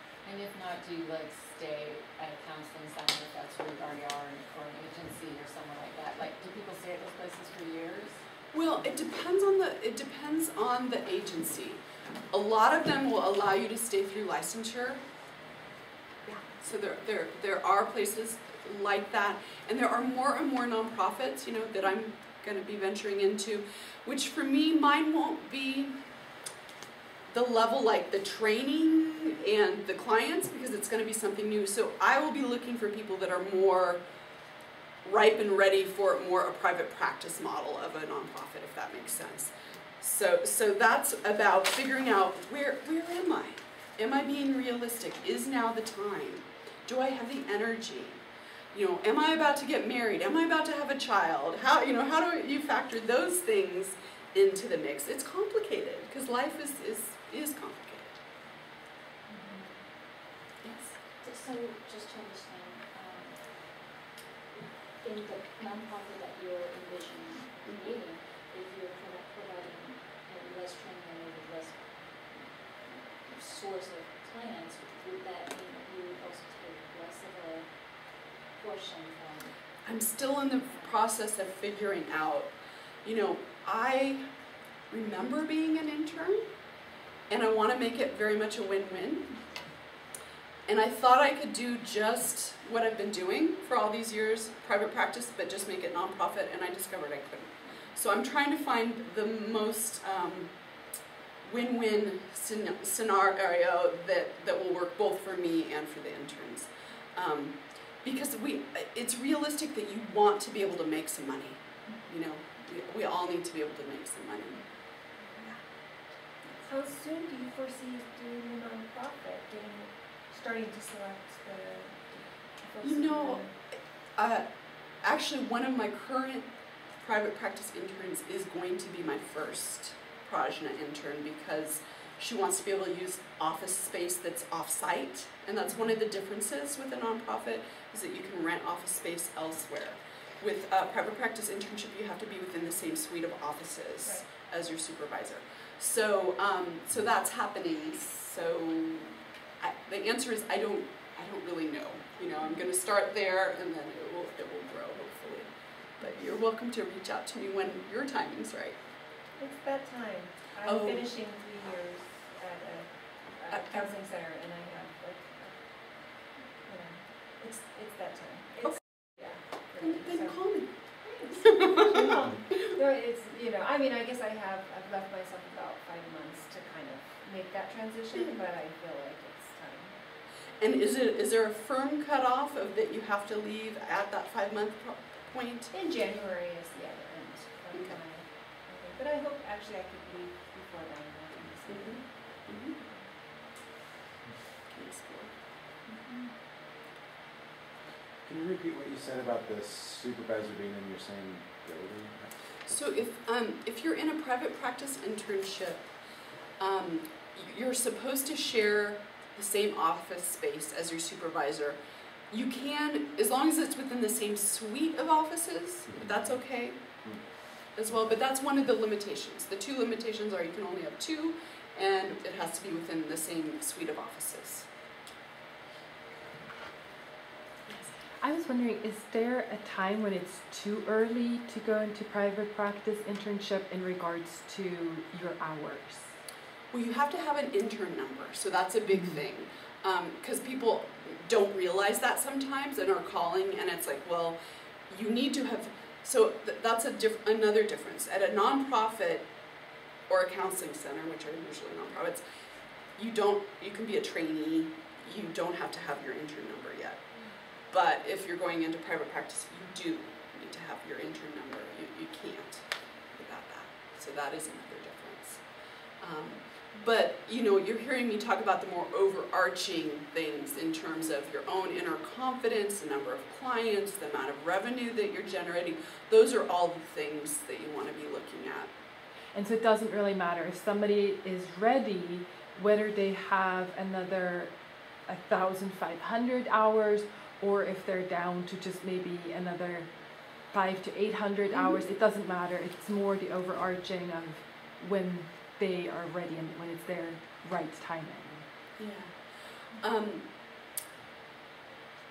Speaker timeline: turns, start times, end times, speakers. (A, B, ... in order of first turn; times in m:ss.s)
0:00.2-0:08.2 A
0:08.5-0:11.8 B
0:12.3-0:15.0 B
0:16.2-0:26.0 B
0:27.3-0:34.0 B
0:35.0-0:48.2 B
0:48.7-0:58.2 B
0:59.3-1:03.9 C
1:00.6-1:00.9 B
1:05.0-1:19.5 C
1:07.7-1:07.9 B
1:19.8-1:22.5 B
1:23.0-1:24.2 B
1:24.9-1:26.5 B
1:27.3-1:29.4 B
1:30.7-1:40.5 B
1:41.4-1:54.6 B
1:56.6-2:03.5 D
2:02.8-2:03.4 B
2:04.2-2:04.5 B
2:05.0-2:38.8 B
2:39.4-2:50.4 D
2:40.6-2:41.1 B
2:43.5-2:43.9 B
2:49.8-2:50.7 B
2:51.0-3:00.0 D
2:51.4-2:52.1 B
3:00.6-3:05.7 B
3:05.7-3:13.1 D
3:11.7-3:12.8 B
3:14.7-3:15.3 B
3:18.2-3:23.0 E
3:22.7-3:25.8 B
3:26.6-3:31.8 B
3:32.3-3:36.8 B
3:35.9-3:36.3 E
3:37.8-3:44.7 B
3:48.2-3:56.1 F
3:56.7-4:04.4 B
4:04.9-4:09.3 B
4:10.1-4:12.2 B
4:13.0-4:17.0 B
4:17.7-4:25.4 B
4:26.0-4:38.7 B
4:39.3-4:44.5 F
4:45.1-4:58.4 F
4:51.5-4:51.8 B
4:58.8-4:59.1 B
4:59.8-5:00.3 B